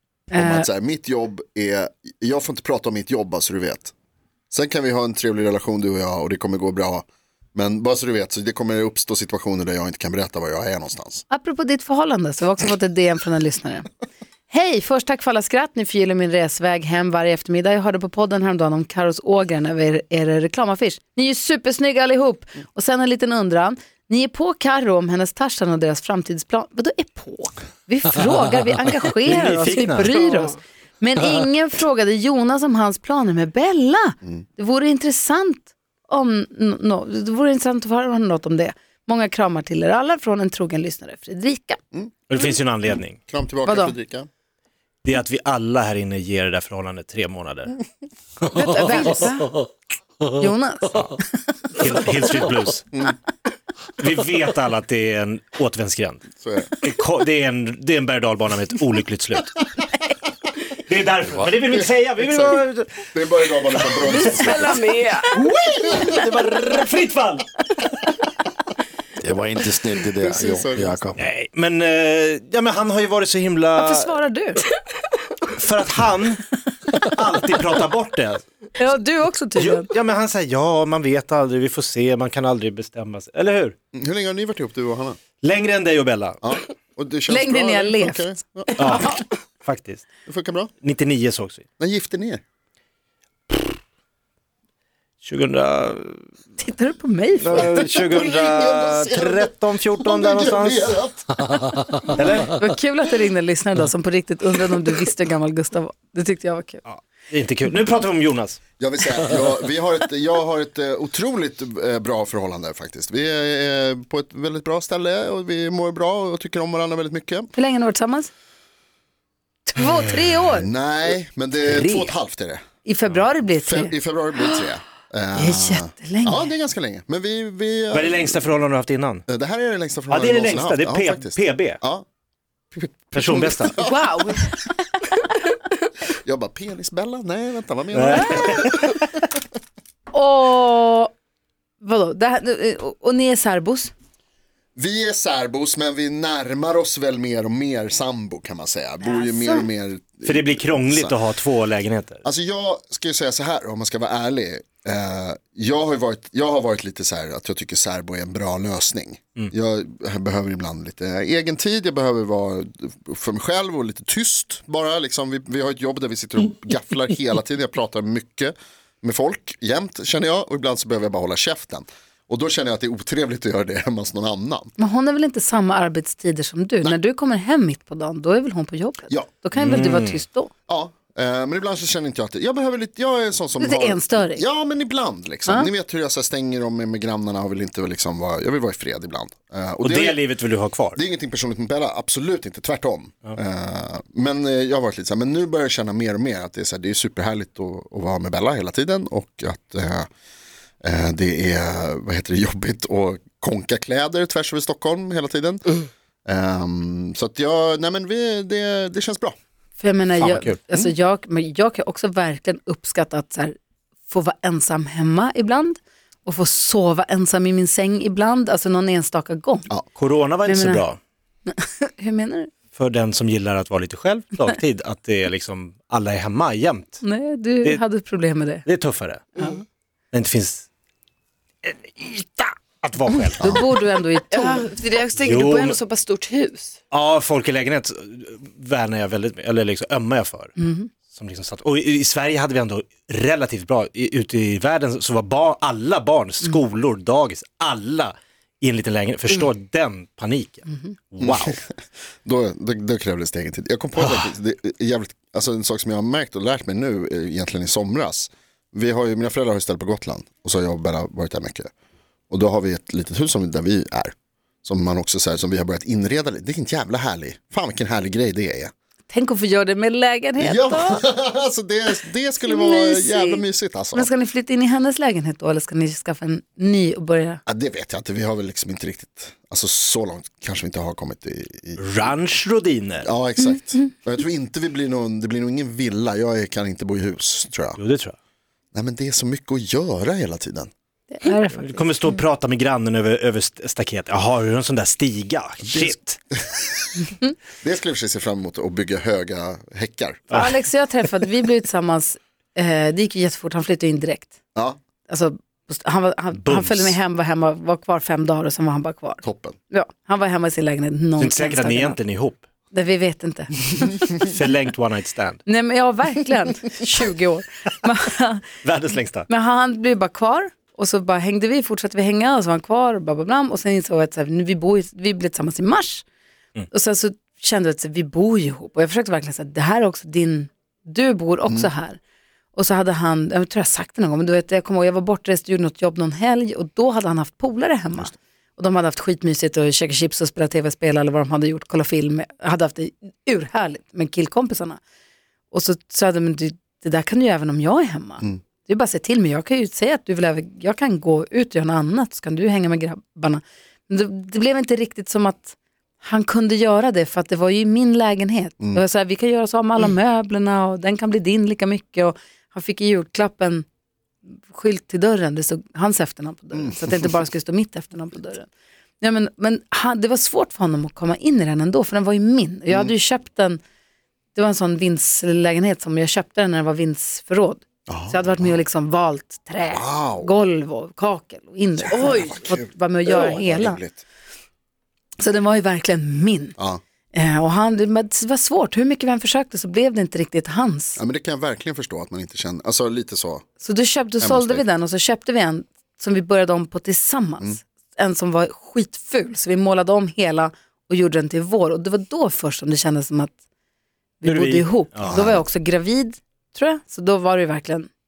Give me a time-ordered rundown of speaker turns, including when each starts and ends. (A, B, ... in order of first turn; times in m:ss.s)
0:00.3-0:00.6 A
0:00.3-0:03.9 B
0:04.5-0:11.2 B
0:11.3-0:13.9 A
0:14.5-0:41.8 A
0:29.2-0:30.1 C
0:30.0-0:30.5 D
0:42.3-0:43.2 C
0:43.3-0:44.3 B
0:43.6-0:44.0 A
0:45.0-0:47.8 C
0:48.5-0:49.5 A
0:48.6-0:49.3 D
0:50.4-0:51.2 A
0:51.8-0:52.8 C
0:54.0-0:56.2 C
0:56.4-0:56.7 B
0:56.8-0:59.6 C
1:00.8-1:03.0 C
1:01.7-1:04.8 B
1:04.0-1:05.3 D
1:05.4-1:07.4 C
1:05.6-1:06.0 B
1:09.2-1:11.2 E
1:10.2-1:11.0 B
1:11.2-1:14.1 C
1:13.8-1:14.6 A
1:15.5-1:18.4 C
1:18.8-1:19.9 A
1:19.6-1:23.7 C
1:23.9-1:25.2 B
1:25.4-1:26.4 C
1:26.4-1:29.2 B
1:27.3-1:29.2 A
1:28.8-1:30.1 C
1:30.3-1:30.7 B
1:30.8-1:31.6 C
1:31.8-1:32.4 B
1:35.2-1:36.2 C
1:36.6-1:37.8 A
1:37.4-1:41.0 C
1:37.5-1:41.3 B
1:41.5-1:42.0 E
1:42.1-1:42.5 C
1:42.5-1:46.8 A
1:46.8-1:48.6 C
1:48.8-1:57.5 B
1:57.5-1:58.3 A
1:59.6-2:00.7 A
2:00.5-2:02.6 B
2:01.6-2:02.1 C
2:02.8-2:03.9 A
2:03.6-2:08.4 B
2:05.3-2:06.5 A
2:07.9-2:09.2 C
2:09.3-2:12.0 B
2:10.1-2:11.8 C
2:12.7-2:14.3 B
2:13.1-2:13.7 C
2:13.8-2:14.7 A
2:16.1-2:19.0 B
2:17.9-2:19.0 C
2:18.1-2:18.7 A
2:20.1-2:21.1 A
2:21.8-2:23.9 A
2:24.8-2:31.2 B
2:29.0-2:29.7 A
2:30.2-2:32.2 C
2:32.2-2:54.7 B
2:54.8-3:00.5 A
2:59.1-2:59.4 B
2:59.5-3:00.2 C
3:00.7-3:10.2 B
3:03.6-3:04.4 A
3:09.8-3:11.0 C
3:10.9-3:20.1 B
3:20.8-3:29.4 B
3:29.8-3:33.5 A
3:30.2-3:30.9 C
3:34.1-3:39.7 A
3:40.0-3:41.0 C
3:40.4-3:40.8 A
3:41.5-3:42.5 A
3:42.7-3:47.0 C
3:47.0-3:48.6 A
3:48.6-3:49.5 C
3:50.1-3:50.6 C
3:51.6-3:53.6 C
3:53.4-3:53.7 B
3:53.4-3:54.7 A
3:54.3-3:56.8 D
3:55.2-3:55.8 C
3:56.9-4:00.5 C
4:00.6-4:00.9 A
4:01.1-4:11.6 C
4:11.2-4:11.7 B
4:12.2-4:21.7 B
4:14.0-4:14.3 C
4:22.3-4:28.7 B
4:29.1-4:31.0 A
4:30.4-4:34.1 B
4:32.4-4:33.4 A
4:33.9-4:37.4 A
4:37.4-4:41.8 B
4:41.8-4:43.1 C
4:43.0-4:47.8 B
4:47.8-4:48.2 C
4:48.7-4:50.7 B
4:51.1-4:51.9 A
4:51.6-4:56.2 C
4:55.8-4:57.1 B
4:57.6-5:00.3 B
5:00.3-5:00.6 C
5:00.3-5:04.3 A
5:05.1-5:12.0 A
5:06.3-5:07.0 C
5:09.2-5:09.5 B
5:11.2-5:12.4 C
5:12.7-5:14.1 A
5:14.2-5:15.4 C
5:15.4-5:18.4 A
5:18.6-5:19.2 C
5:19.3-5:26.0 A
5:26.7-5:32.0 A
5:31.4-5:31.7 B
5:32.5-5:44.8 A
5:45.5-6:03.6 A
6:04.5-6:08.5 A
6:06.5-6:07.1 B
6:09.0-6:13.6 A
6:14.3-6:23.8 A
6:17.9-6:18.6 B
6:19.7-6:20.3 B
6:21.8-6:24.0 B
6:21.9-6:22.5 D
6:25.2-6:26.5 A
6:27.1-6:31.0 A
6:31.0-6:33.4 B
6:33.6-6:43.4 A
6:34.2-6:34.6 B
6:44.2-6:47.9 A
6:44.2-6:45.3 C
6:45.1-6:45.4 B